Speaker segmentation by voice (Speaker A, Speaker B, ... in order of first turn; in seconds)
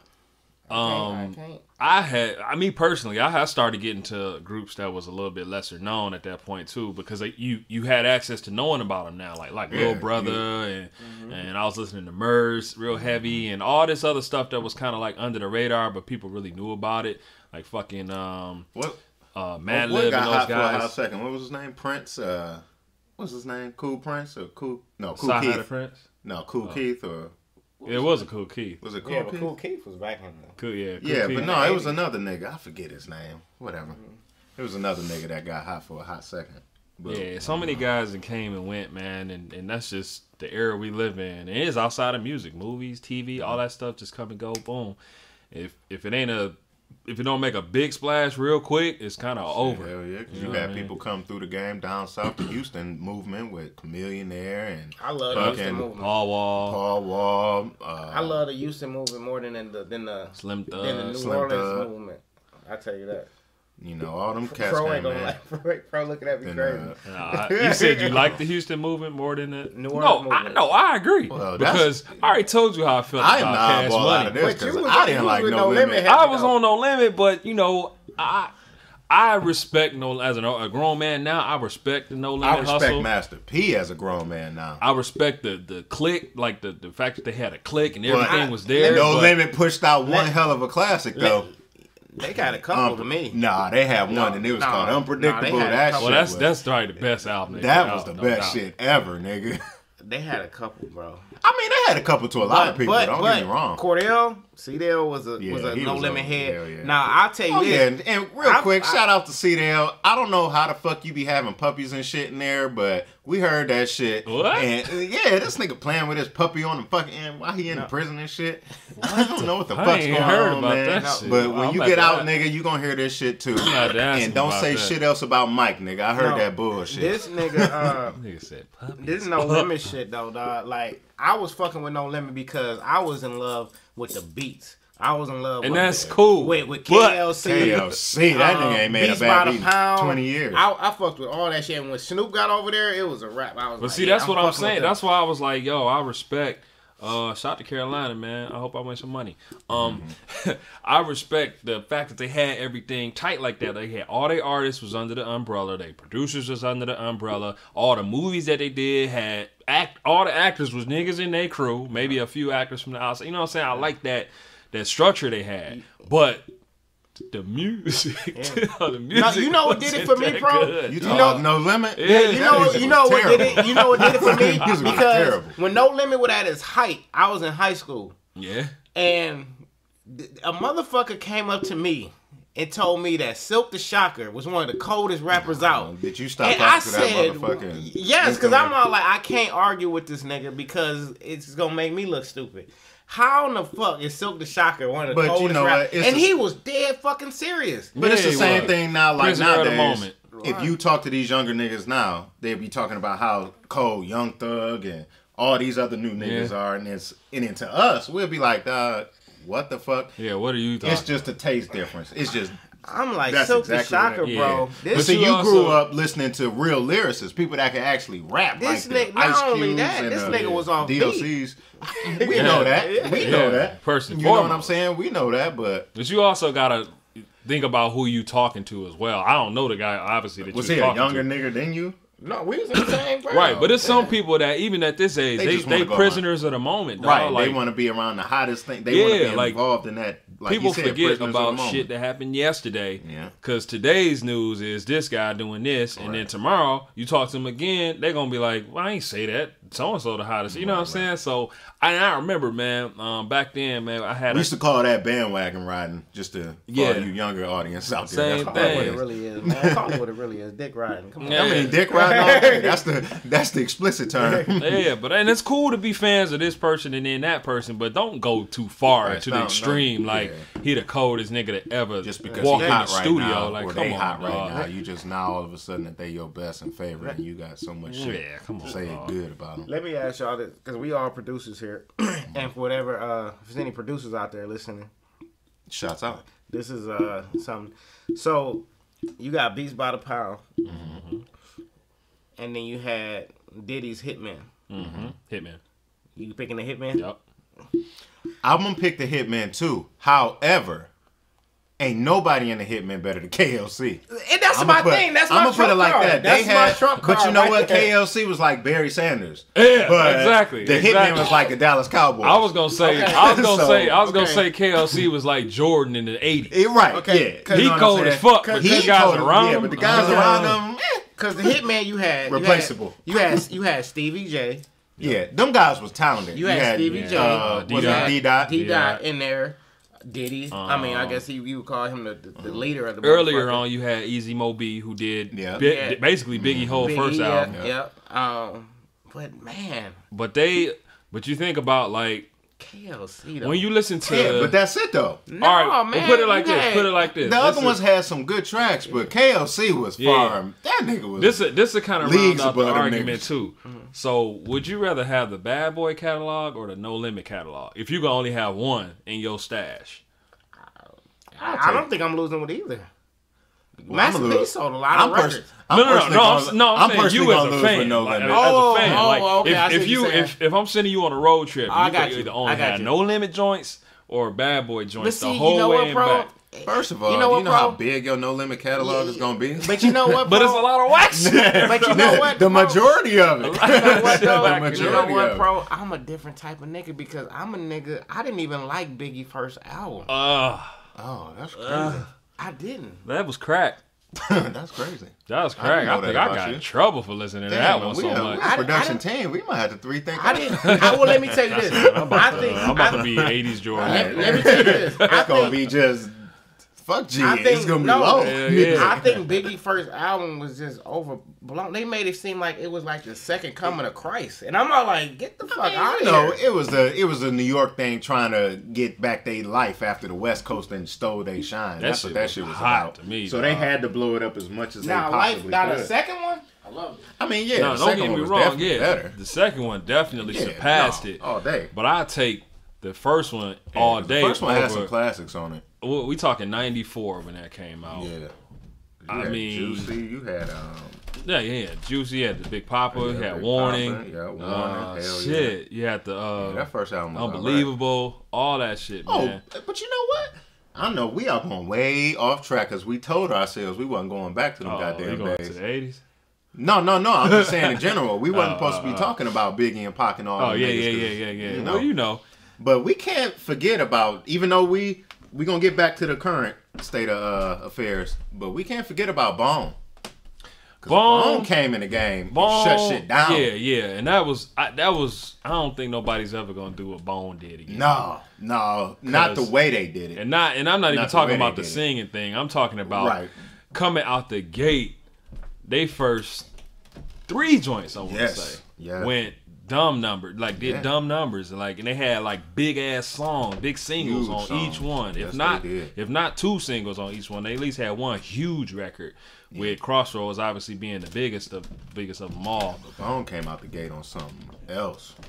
Speaker A: 0.7-1.6, 11.0-11.4, 29.0-30.6, 31.4-32.0, 55.0-56.1, 58.1-63.3, 64.5-68.2, 69.7-70.7, 74.3-76.5, 88.2-89.3, 90.0-90.4, 91.2-91.6, 92.2-93.4, 94.1-96.3, 100.0-101.3, 102.4-109.0, 120.9-121.7, 126.2-128.2, 129.0-144.9, 168.3-171.5, 172.0-178.2, 178.9-198.7, 200.3-200.7, 212.8-215.4, 218.6-221.3, 221.8-223.6, 232.2-234.2, 258.5-262.8, 264.2-264.5, 272.3-272.8, 279.6-284.9, 286.5-288.7, 289.2-290.4, 292.4-294.5, 296.2-297.0, 304.1-307.9, 312.8-313.4, 314.0-314.4, 316.9-320.6, 321.2-324.6, 326.3-333.6, 335.6-336.0, 336.8-340.0, 342.6-344.2, 345.3-347.0, 361.4-362.9, 363.8-365.5, 368.3-370.3, 371.7-372.9, 375.0-377.8, 378.8-380.7, 381.6-382.9, 383.5-390.1, 391.6-393.0, 398.3-399.0, 400.1-405.7, 407.2-416.4, 424.8-427.0
Speaker B: 0.7-18.7, 19.4-20.9, 25.1-26.0, 27.9-28.8, 30.6-31.6, 37.1-45.0, 45.5-50.9, 55.3-56.8, 60.4-61.2, 67.0-74.4, 76.1-78.5, 79.1-83.1, 84.8-89.3, 96.0-98.6, 114.3-114.9, 119.0-122.4, 123.6-125.0, 128.1-129.7, 135.6-137.9, 143.8-166.5, 167.2-175.0, 178.4-178.8, 197.9-200.2, 206.2-206.6, 210.2-211.3, 214.2-215.8, 220.3-220.7, 222.3-224.7, 225.9-231.3, 232.8-237.6, 238.9-239.6, 240.4-254.5, 256.7-257.1, 258.1-259.0, 261.2-261.8, 264.6-274.7, 277.9-279.1, 290.7-291.2, 294.7-295.6, 309.6-311.4, 312.2-316.6, 317.5-320.6, 326.9-329.0, 330.5-331.2, 333.0-337.6, 340.1-342.3, 343.4-344.6, 345.4-347.8, 350.0-350.4, 351.2-360.0, 365.7-376.3, 380.1-382.4, 383.4-385.1, 390.1-390.8, 391.7-392.0, 393.1-393.8, 395.3-398.4, 400.6-405.3, 408.1-409.2, 421.8-423.7, 427.6-434.9, 435.8-438.1, 439.1-439.9, 441.2-449.4, 454.6-456.0, 457.3-459.1, 460.4-462.2, 470.9-471.5, 472.3-478.0, 479.1-479.5, 480.1-483.2, 483.7-485.0, 485.6-486.5, 487.3-502.8
Speaker C: 9.7-10.4, 13.0-13.4, 19.7-22.6, 23.2-25.6, 26.2-28.3, 28.8-29.5, 31.0-34.0, 34.6-37.8, 49.6-55.9, 56.6-58.4, 61.1-61.9, 63.8-65.4, 66.4-67.0, 67.7-68.4, 71.3-72.2, 73.2-76.1, 82.4-84.8, 88.1-91.5, 92.7-96.5, 97.5-99.6, 101.4-103.8, 105.4-107.0, 107.5-128.0, 135.7-136.2, 137.4-140.6, 149.7-150.1, 170.9-175.6, 185.5-188.7, 195.1-196.3, 198.0-210.2, 210.8-212.6, 213.3-225.9, 230.4-232.0, 233.4-234.1, 235.4-236.2, 237.0-241.9, 243.0-243.3, 246.0-246.3, 250.5-251.1, 254.3-260.0, 261.3-264.8, 269.0-270.5, 272.0-279.7, 285.7-286.3, 290.7-291.0, 294.8-295.1, 298.4-300.9, 301.8-314.0, 316.5-321.6, 322.3-323.5, 325.0-328.5, 332.4-332.6, 335.3-335.6, 336.4-336.9, 344.1-345.2, 347.2-351.4, 352.0-353.3, 361.4-361.9, 363.9-369.1, 376.6-380.3, 381.1-385.5, 391.0-392.1, 394.2-396.6, 397.5-406.3, 406.8-409.1, 415.5-425.9, 427.2-429.1, 430.2-431.7, 433.7-435.6, 437.9-438.3, 439.0-441.0, 442.9-445.6, 446.4-447.7, 449.1-455.6, 456.6-461.9, 462.6-469.8, 470.8-473.5, 477.7-480.2, 480.9-481.8, 482.9-483.3, 488.1-489.1, 490.6-490.9, 494.0-495.9, 499.5-499.8, 502.8-505.1